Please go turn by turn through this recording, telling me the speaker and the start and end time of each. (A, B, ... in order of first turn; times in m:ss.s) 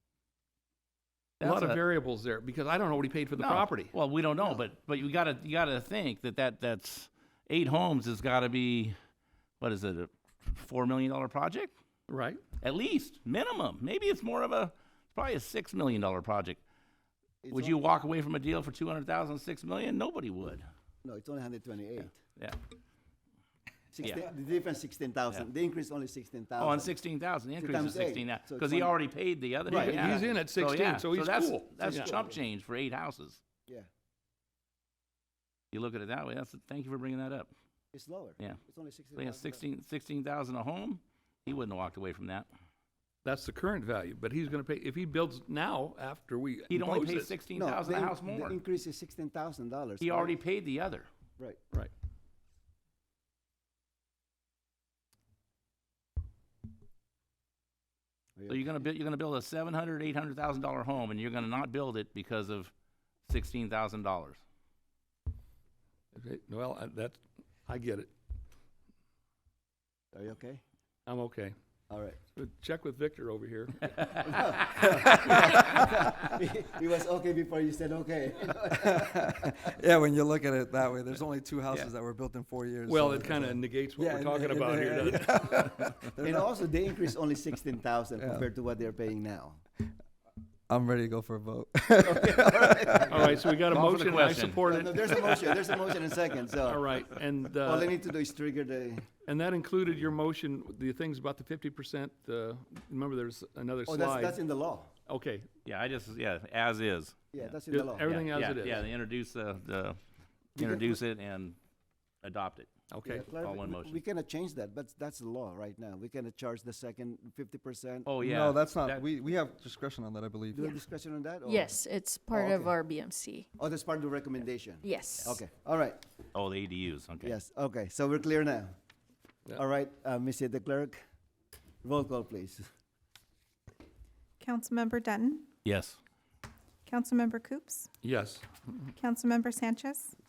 0:01.4-0:01.8 A
0:01.4-0:03.9 B
0:03.4-0:09.0 A
0:09.6-0:11.7 A
0:12.1-0:12.4 B
0:12.6-0:16.6 A
0:17.4-0:17.8 C
0:17.5-0:20.7 A
0:21.0-0:22.2 C
0:23.9-0:27.0 C
0:26.6-0:33.4 A
0:27.6-0:29.0 C
0:29.7-0:30.3 C
0:29.7-0:32.1 B
0:31.8-0:32.4 C
0:35.7-0:37.5 A
0:37.9-0:39.6 C
0:39.2-0:42.5 A
0:43.2-0:47.4 B
0:46.7-0:48.6 A
0:47.5-0:50.4 C
0:50.0-0:51.1 A
0:58.4-0:58.7 C
0:58.5-1:02.7 A
1:03.3-1:04.4 A
1:06.2-1:08.1 B
1:10.1-1:10.6 C
1:11.1-1:11.5 B
1:11.9-1:12.2 C
1:12.4-1:14.1 B
1:14.0-1:14.4 A
1:14.1-1:19.7 C
1:14.8-1:15.9 D
1:18.8-1:26.5 D
1:22.9-1:25.8 B
1:26.2-1:29.6 C
1:28.2-1:28.4 D
1:30.7-1:33.3 D
1:32.0-1:33.8 C
1:33.1-1:35.1 B
1:33.7-1:35.4 A
1:34.6-1:36.9 C
1:36.7-1:37.9 B
1:37.6-1:39.1 C
1:39.2-1:44.4 B
1:43.9-1:44.9 C
1:45.1-1:45.5 B
1:45.7-1:50.0 A
1:47.3-1:48.2 C
1:47.7-1:48.9 B
1:50.6-1:51.0 C
1:50.6-1:51.6 A
1:52.2-1:52.7 A
1:52.9-1:53.3 B
1:53.0-1:58.1 C
1:53.4-1:54.0 A
1:58.1-1:59.0 A
1:58.2-2:00.8 D
2:00.6-2:01.8 C
2:01.4-2:03.5 E
2:02.3-2:02.8 C
2:03.6-2:06.0 C
2:04.8-2:05.4 E
2:06.3-2:07.4 A
2:07.2-2:08.7 C
2:09.6-2:11.0 C
2:11.8-2:12.7 C
2:14.4-2:15.5 F
2:15.6-2:16.0 A
2:16.9-2:17.9 F
2:18.0-2:18.9 B
2:19.0-2:20.1 F